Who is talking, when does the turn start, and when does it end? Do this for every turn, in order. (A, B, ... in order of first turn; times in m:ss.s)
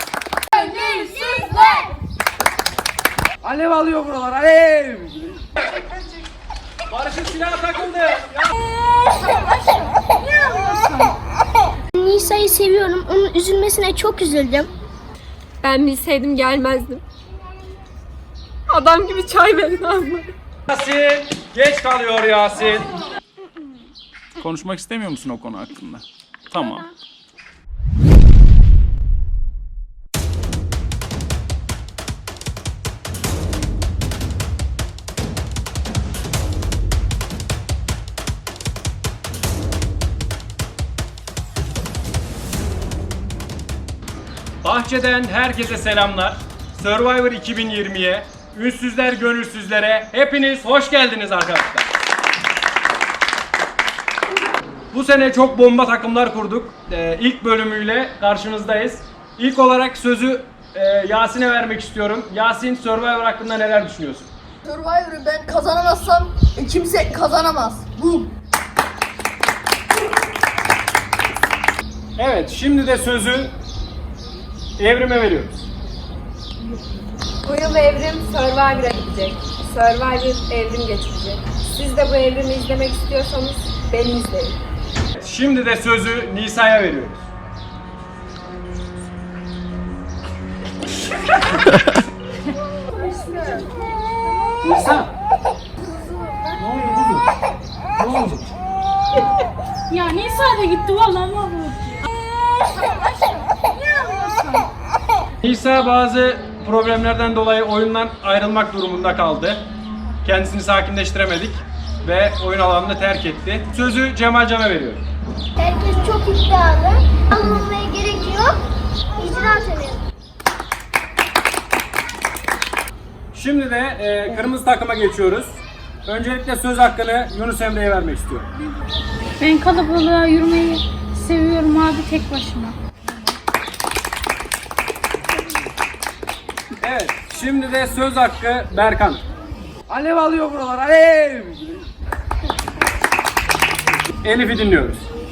0:00.5-0:01.9 A
0:03.4-0:05.4 B
0:06.9-0:08.5 C
0:09.3-0:11.2 D
0:12.0-0:14.7 A
0:15.6-0:17.0 E
0:18.7-0:20.3 E
0:20.7-0:22.9 C
0:24.4-0:26.9 C
0:44.6-0:51.8 C
0:54.9-1:04.3 C
1:04.6-1:08.3 F
1:12.2-1:13.5 C
1:14.8-1:15.6 C
1:17.4-1:24.6 E
1:25.2-1:27.2 C
1:34.6-1:35.1 C
1:36.6-1:37.3 C
1:38.0-1:38.5 C
1:39.9-1:42.0 D
1:42.7-1:44.7 D
1:45.4-1:49.6 C
1:50.2-1:55.0 C
1:55.6-1:58.6 A
1:59.2-2:00.0 A
2:03.3-2:08.5 C
2:09.4-2:12.8 D
2:16.8-2:19.2 C
2:19.9-2:21.7 B
2:24.2-2:25.1 C